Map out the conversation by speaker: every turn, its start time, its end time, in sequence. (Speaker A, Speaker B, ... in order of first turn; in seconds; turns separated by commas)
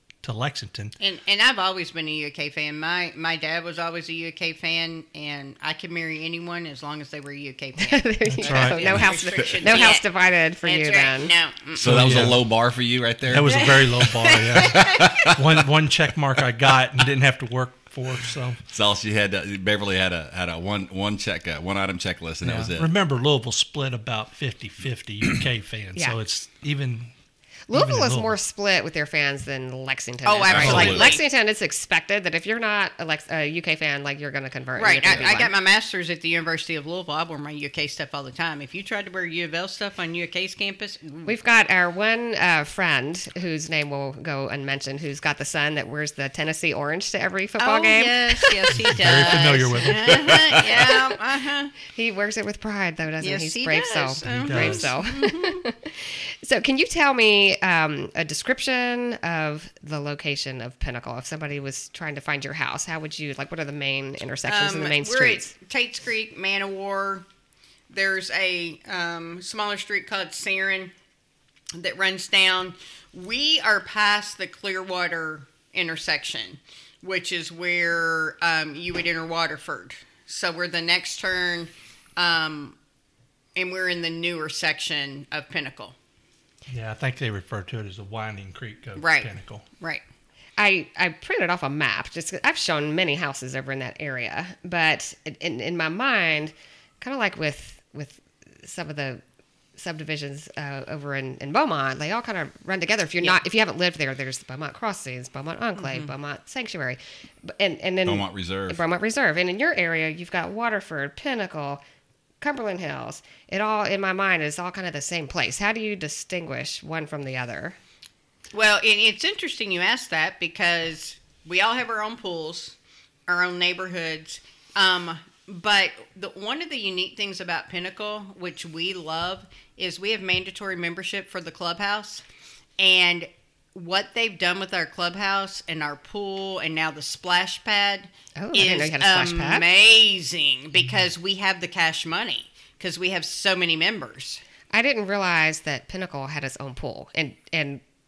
Speaker A: 0.2-1.0, Speaker B: 1.0-10.1, Speaker C: 7.8-11.3, Speaker A: 8.4-8.9, Speaker D: 9.4-9.7, Speaker B: 10.6-12.1, Speaker A: 11.8-12.5, Speaker D: 11.8-15.7, Speaker A: 13.2-18.6, Speaker B: 13.5-15.3, Speaker D: 18.7-22.9, Speaker A: 22.4-27.1, Speaker C: 27.7-35.5, Speaker A: 27.7-28.4, Speaker B: 30.2-31.2, Speaker D: 30.5-31.1, Speaker A: 30.6-31.0, Speaker B: 34.8-41.3, Speaker C: 41.2-49.5, Speaker B: 47.6-51.8, Speaker A: 48.8-50.4, Speaker C: 51.9-65.5, Speaker B: 53.2-55.6, Speaker A: 54.2-55.0, Speaker B: 64.5-67.3, Speaker B: 67.9-70.9, Speaker B: 71.8-82.8, Speaker B: 83.5-86.0, Speaker A: 86.7-89.7, Speaker B: 89.0-90.0, Speaker C: 90.6-99.2, Speaker C: 99.8-111.8, Speaker B: 105.8-106.1, Speaker D: 108.0-108.8, Speaker C: 112.4-117.8, Speaker B: 118.5-122.8, Speaker B: 123.3-132.2, Speaker B: 132.8-144.4, Speaker C: 138.4-139.6, Speaker C: 144.7-147.8